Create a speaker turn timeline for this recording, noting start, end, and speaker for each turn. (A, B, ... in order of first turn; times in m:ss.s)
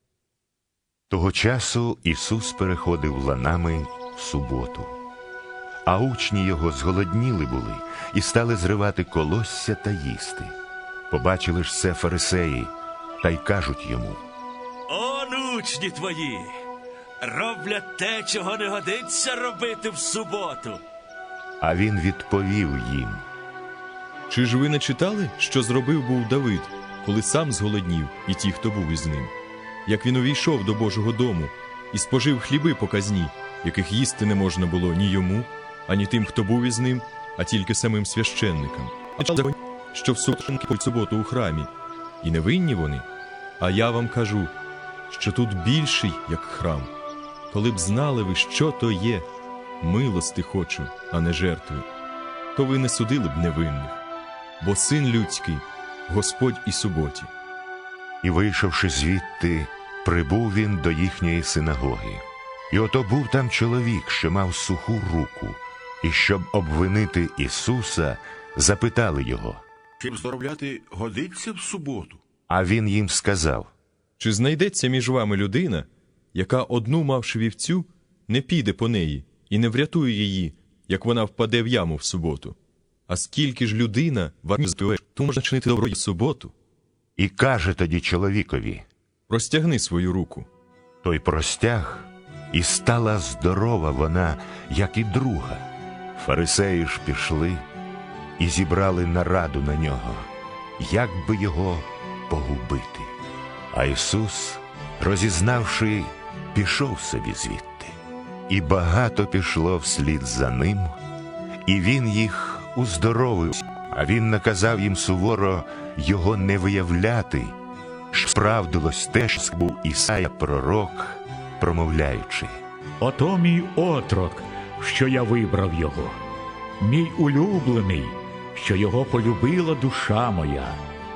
0:01.1-0:05.0 A
0:05.9-0:10.6 A
0:11.1-0:14.2 A
0:14.9-0:16.5 B
0:17.2-0:20.8 B
0:21.6-0:23.2 A
0:24.3-0:29.3 C
0:29.9-0:41.7 C
0:42.2-0:43.1 C
0:43.6-0:44.5 C
0:45.1-0:46.9 C
0:47.5-0:49.3 C
0:49.8-0:51.9 C
0:52.6-0:54.0 C
0:54.6-0:57.3 C
0:58.2-1:09.6 A
1:10.0-1:12.2 D
1:12.5-1:13.7 A
1:14.2-1:22.6 C
1:23.1-1:26.5 C
1:27.2-1:28.9 A
1:29.3-1:30.5 C
1:31.0-1:37.6 A
1:38.4-1:43.1 A
1:43.7-1:48.0 A
1:48.5-1:51.0 A
1:51.7-1:57.6 A
1:58.1-2:02.6 A
2:03.0-2:06.2 E
2:06.8-2:10.8 E